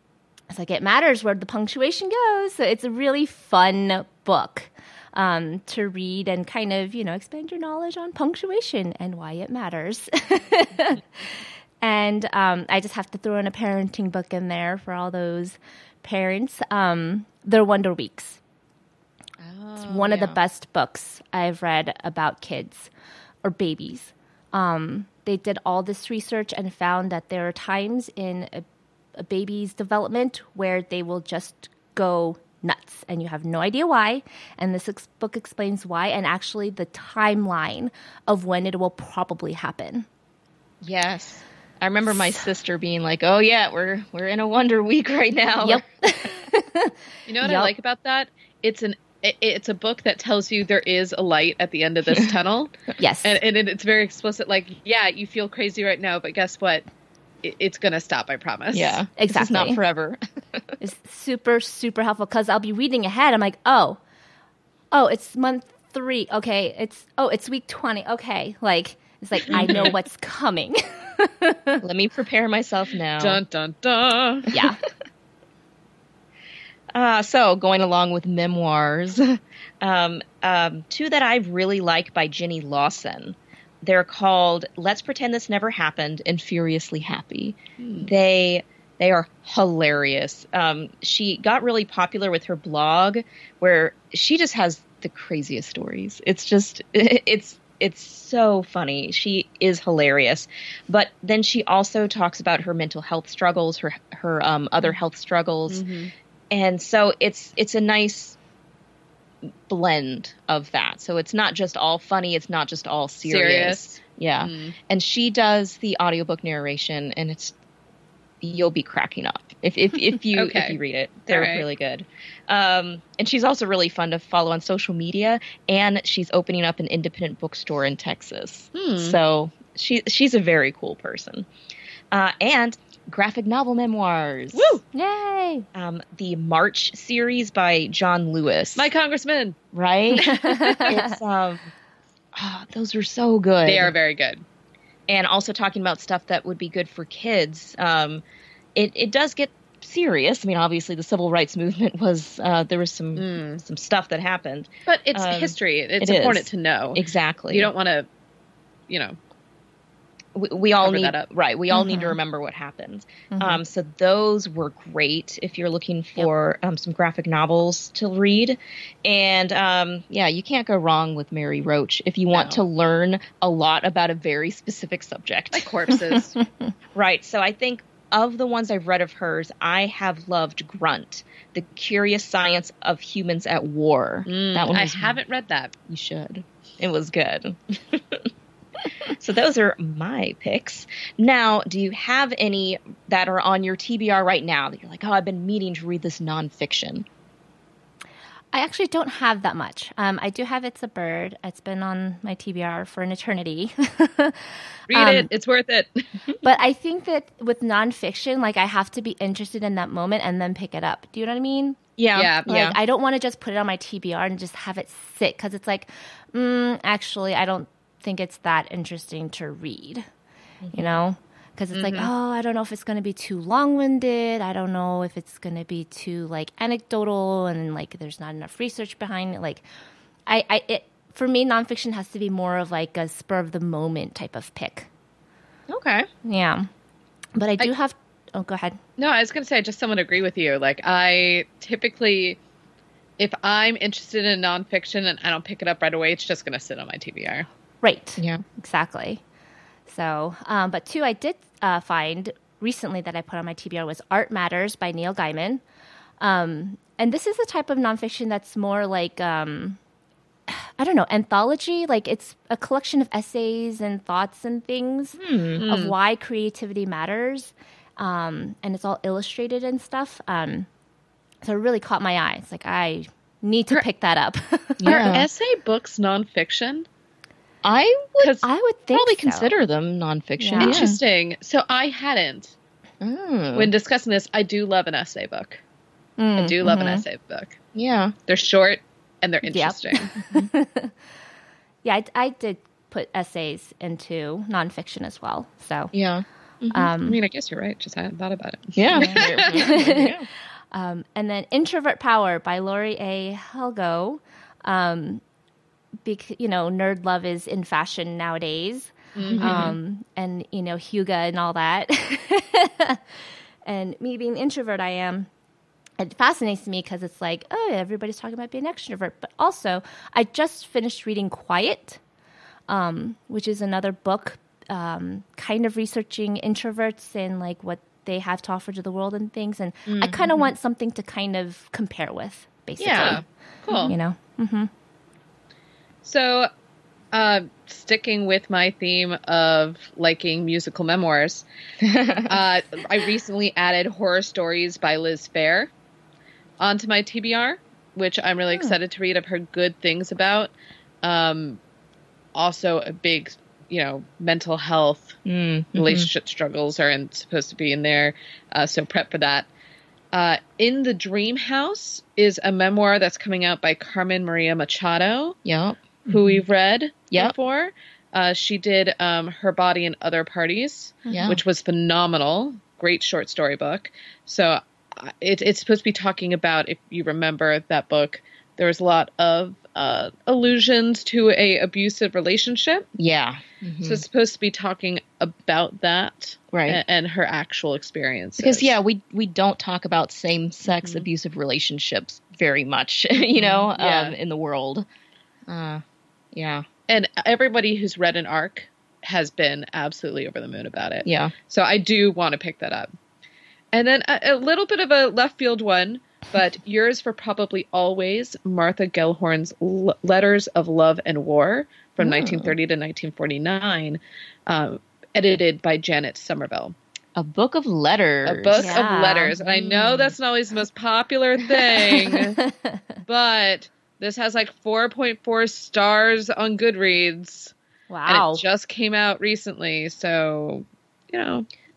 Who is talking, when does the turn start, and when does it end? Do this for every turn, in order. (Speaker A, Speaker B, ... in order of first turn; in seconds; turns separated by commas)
Speaker A: 0.5-11.0, Speaker A: 11.8-18.4, Speaker B: 19.4-20.4, Speaker A: 19.8-22.9, Speaker A: 23.4-28.6, Speaker A: 29.2-40.1, Speaker B: 40.8-45.9, Speaker A: 45.6-47.7, Speaker C: 47.3-52.7, Speaker B: 52.1-52.3, Speaker A: 53.0-53.4, Speaker C: 53.2-56.9, Speaker C: 57.4-59.0, Speaker B: 58.7-60.7, Speaker A: 59.2-59.8, Speaker A: 60.8-64.0, Speaker A: 64.9-71.8, Speaker B: 69.5-69.9, Speaker C: 69.5-70.0, Speaker B: 71.8-73.4, Speaker C: 73.2-74.5, Speaker A: 74.5-74.8, Speaker B: 76.9-105.8, Speaker C: 87.8-88.1, Speaker C: 105.7-106.1, Speaker B: 106.5-108.4, Speaker B: 109.7-117.5, Speaker C: 113.2-114.8, Speaker B: 118.4-131.5, Speaker C: 120.3-121.7, Speaker C: 128.8-129.2, Speaker B: 132.1-134.8, Speaker C: 134.5-134.8, Speaker A: 134.9-135.7, Speaker B: 135.8-138.9, Speaker C: 138.8-139.6, Speaker B: 139.7-141.7, Speaker C: 140.2-140.9, Speaker A: 140.2-141.2, Speaker B: 142.3-143.9, Speaker C: 143.7-144.4, Speaker B: 145.1-148.2, Speaker B: 148.8-157.7, Speaker C: 153.2-153.6, Speaker C: 154.9-158.1, Speaker C: 158.9-159.2, Speaker B: 160.3-175.9, Speaker C: 160.8-161.2, Speaker A: 161.7-162.2, Speaker A: 163.3-163.6, Speaker C: 175.5-176.4, Speaker B: 176.9-185.2, Speaker C: 184.3-185.7, Speaker B: 185.9-197.1, Speaker A: 198.5-205.3, Speaker C: 204.9-206.0, Speaker A: 206.4-211.8, Speaker B: 212.0-212.8, Speaker C: 212.2-212.5, Speaker A: 212.5-220.1, Speaker B: 220.6-220.9, Speaker A: 220.7-229.7, Speaker C: 221.7-222.1, Speaker A: 230.3-234.9, Speaker B: 235.7-236.1, Speaker A: 236.2-236.7, Speaker A: 237.4-238.8, Speaker C: 239.0-242.4, Speaker C: 243.2-247.5, Speaker A: 247.8-249.2, Speaker B: 248.2-248.4, Speaker A: 249.9-255.6, Speaker A: 256.2-259.8, Speaker A: 260.5-270.7, Speaker B: 265.2-265.6, Speaker C: 265.6-265.9, Speaker A: 271.4-275.2, Speaker B: 274.8-275.3, Speaker C: 274.9-276.9, Speaker B: 277.6-281.0, Speaker C: 278.2-278.5, Speaker A: 278.4-279.5, Speaker A: 280.4-280.9, Speaker C: 280.6-282.5, Speaker B: 283.0-283.7, Speaker C: 283.5-285.6, Speaker A: 286.2-287.0, Speaker C: 286.4-287.6, Speaker B: 287.8-288.1, Speaker C: 288.3-290.1, Speaker A: 289.4-290.9, Speaker B: 290.2-290.5, Speaker A: 291.8-295.9, Speaker B: 295.9-296.9, Speaker A: 296.7-297.2, Speaker C: 297.1-299.7, Speaker B: 298.8-300.3, Speaker A: 298.9-300.1, Speaker A: 300.7-305.2, Speaker A: 306.0-313.0, Speaker C: 309.1-309.8, Speaker B: 309.2-309.8, Speaker A: 313.7-315.3, Speaker A: 316.0-322.0, Speaker A: 322.7-334.7, Speaker B: 329.9-330.5, Speaker B: 332.8-333.9, Speaker C: 332.9-333.9, Speaker C: 336.0-336.5, Speaker C: 337.1-341.4, Speaker B: 341.8-342.4, Speaker C: 342.3-345.7, Speaker C: 346.6-351.6, Speaker A: 348.5-348.8, Speaker C: 352.4-355.2, Speaker B: 355.2-356.1, Speaker C: 355.8-359.5, Speaker C: 360.1-365.4, Speaker B: 365.4-366.4, Speaker C: 366.1-382.9, Speaker B: 371.1-371.4, Speaker B: 383.0-384.0, Speaker C: 383.8-388.7, Speaker B: 386.5-386.8, Speaker B: 388.4-394.9, Speaker C: 390.8-391.1, Speaker C: 393.3-394.2, Speaker B: 395.5-396.7, Speaker C: 396.9-402.9, Speaker B: 401.1-401.3, Speaker C: 403.7-416.8, Speaker B: 412.0-412.6, Speaker B: 417.2-418.8, Speaker C: 418.3-422.4, Speaker A: 418.6-419.4, Speaker B: 419.7-420.1, Speaker B: 421.4-421.9, Speaker A: 422.4-422.8, Speaker C: 423.0-427.5, Speaker A: 427.9-428.4, Speaker C: 428.1-431.5